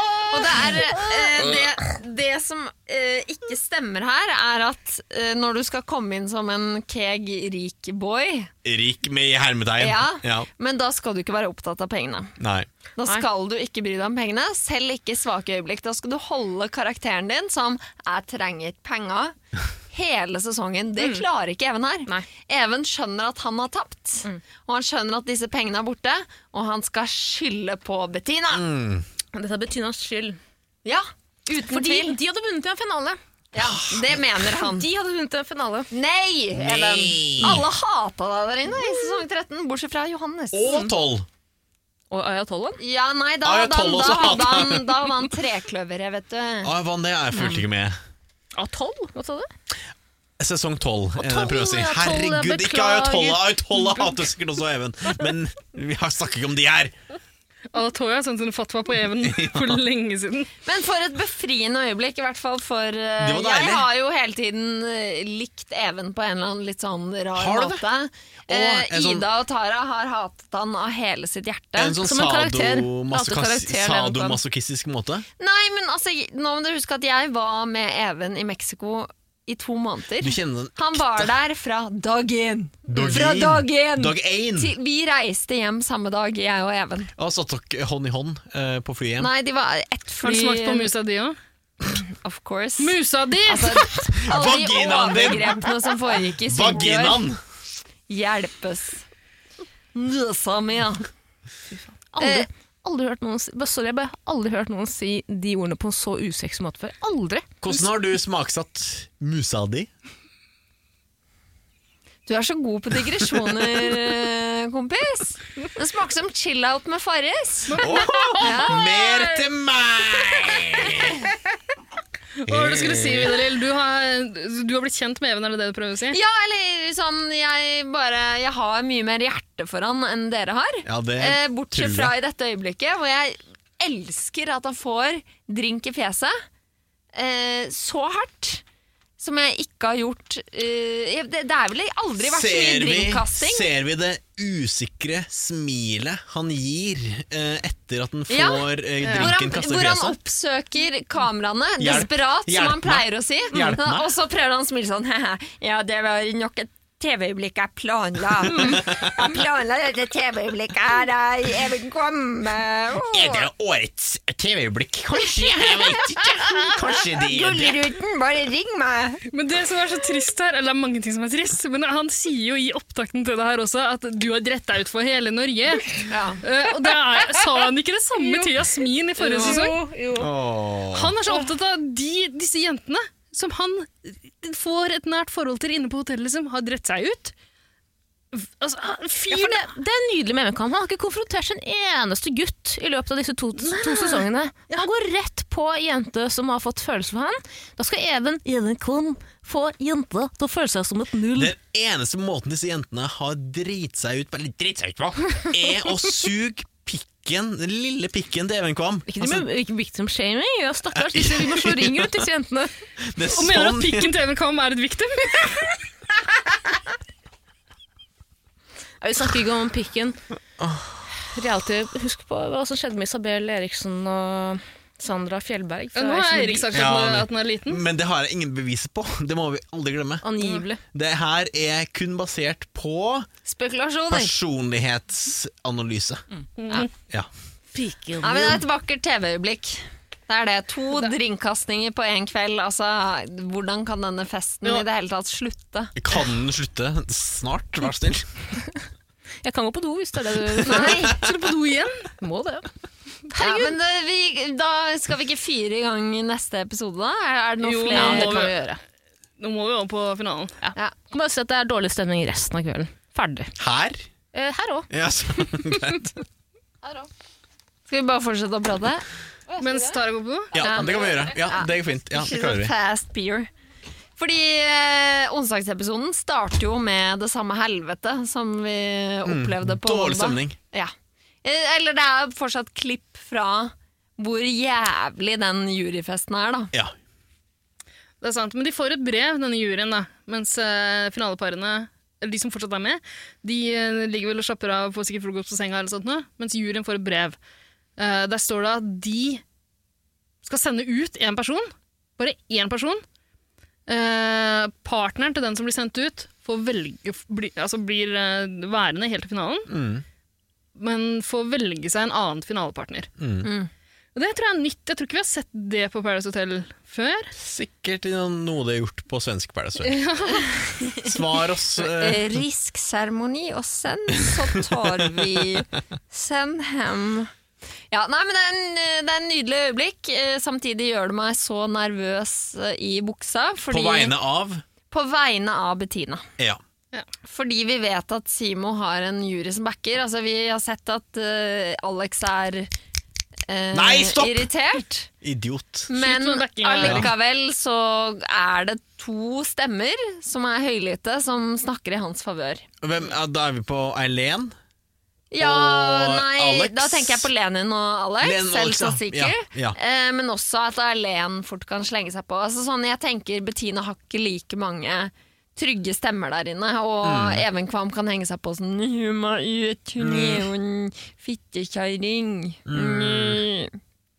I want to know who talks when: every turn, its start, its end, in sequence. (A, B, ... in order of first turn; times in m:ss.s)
0:00.3-0:08.5 A
0:08.6-0:10.5 B
0:09.8-0:12.4 A
0:12.4-0:12.7 B
0:13.0-0:19.4 A
0:19.9-0:28.6 A
0:28.5-0:29.0 B
0:29.3-0:30.4 C
0:30.8-0:32.2 A
0:31.6-0:33.2 C
0:33.5-0:34.9 A
0:33.6-0:34.2 B
0:34.6-0:35.9 C
0:35.9-0:40.9 A
0:36.6-0:37.7 B
0:40.5-0:41.2 B
0:42.1-0:42.8 C
0:42.8-0:46.7 A
0:43.4-0:45.1 B
0:46.6-0:48.0 B
0:47.3-0:47.6 C
0:48.6-0:49.5 C
0:50.4-0:56.9 B
0:51.2-0:54.2 C
0:57.7-1:00.5 D
0:59.2-0:59.8 B
1:00.6-1:12.0 A
1:03.2-1:03.9 B
1:07.3-1:07.8 B
1:08.5-1:09.2 B
1:11.8-1:15.2 B
1:12.0-1:14.4 C
1:15.4-1:27.1 A
1:20.2-1:21.3 B
1:22.9-1:24.7 B
1:27.2-1:29.3 B
1:29.2-1:30.9 A
1:30.2-1:31.4 D
1:31.8-1:37.2 A
1:32.8-1:33.9 D
1:34.2-1:35.7 B
1:36.4-1:37.4 B
1:38.1-1:39.0 A
1:39.9-1:41.1 A
1:42.1-1:47.4 C
1:42.2-1:42.5 A
1:47.6-1:49.9 B
1:52.2-1:57.9 A
1:57.7-1:58.7 D
1:57.8-2:01.2 B
1:58.4-1:58.9 A
2:02.4-2:06.2 D
2:02.5-2:03.4 B
2:06.1-2:16.3 A
2:10.8-2:12.1 B
2:17.1-2:18.6 A
2:19.2-2:23.7 A
2:22.2-2:30.2 B
2:28.3-2:43.5 A
2:29.0-2:29.3 D
2:31.8-2:34.1 B
2:38.5-2:39.3 B
2:43.1-2:47.8 B
2:47.1-2:49.2 A
2:49.3-2:59.8 D
2:56.1-2:56.4 A
2:58.2-2:58.5 C
2:59.2-3:00.3 C
3:00.2-3:01.2 B
3:00.9-3:07.3 D
3:08.3-3:09.7 D
3:09.3-3:21.5 C
3:13.6-3:14.9 D
3:21.3-3:29.5 B
3:29.1-3:32.7 C
3:30.9-3:32.2 B
3:33.0-3:34.1 B
3:33.3-3:35.7 D
3:39.0-3:40.2 C
3:40.6-3:41.0 B
3:41.3-3:46.7 C
3:45.9-3:47.8 D
3:46.7-3:50.3 B
3:50.2-3:50.8 C
3:50.9-3:53.3 B
3:53.4-3:54.3 A
3:54.1-3:56.2 B
3:56.6-3:56.9 D
3:57.7-3:58.6 C
3:58.2-4:05.9 A
4:06.0-4:08.3 B
4:09.4-4:10.9 C
4:10.5-4:11.2 B
4:10.6-4:11.2 A
4:11.2-4:12.1 D
4:12.2-4:12.6 C
4:13.3-4:13.7 C
4:13.4-4:18.5 A
4:17.6-4:18.8 C
4:17.7-4:18.6 D
4:19.4-4:20.6 D
4:20.6-4:23.5 C
4:23.6-4:24.0 B
4:24.3-4:24.9 C
4:24.9-4:26.1 B
4:27.9-4:29.0 A
4:29.5-4:30.0 C
4:29.6-4:30.6 D
4:30.5-4:32.7 B
4:30.6-4:31.2 C
4:30.6-4:33.5 A
4:34.2-4:40.9 A
4:39.2-4:40.6 B
4:41.4-4:46.7 A
4:48.2-4:57.4 D
4:58.0-4:59.4 D
5:00.4-5:03.0 D
5:03.9-5:09.7 D
5:09.7-5:10.0 B
5:10.8-5:13.1 D
5:13.2-5:13.5 B
5:14.1-5:17.3 D
5:17.4-5:20.0 B
5:19.8-5:21.0 D
5:21.0-5:22.4 B
5:21.8-5:27.3 A
5:24.2-5:25.5 B
5:27.9-5:34.1 A
5:33.7-5:34.6 B
5:34.9-5:36.2 A
5:37.2-5:42.7 A
5:43.5-5:45.1 A
5:43.7-5:44.5 B
5:45.2-5:45.9 B
5:45.9-5:52.6 A
5:46.0-5:47.1 D
5:46.8-5:47.1 B
5:52.8-5:54.5 B
5:55.3-6:13.7 A
5:55.4-5:57.3 B
5:58.2-5:59.8 B
6:07.0-6:07.4 B
6:10.0-6:10.5 B
6:12.7-6:13.4 B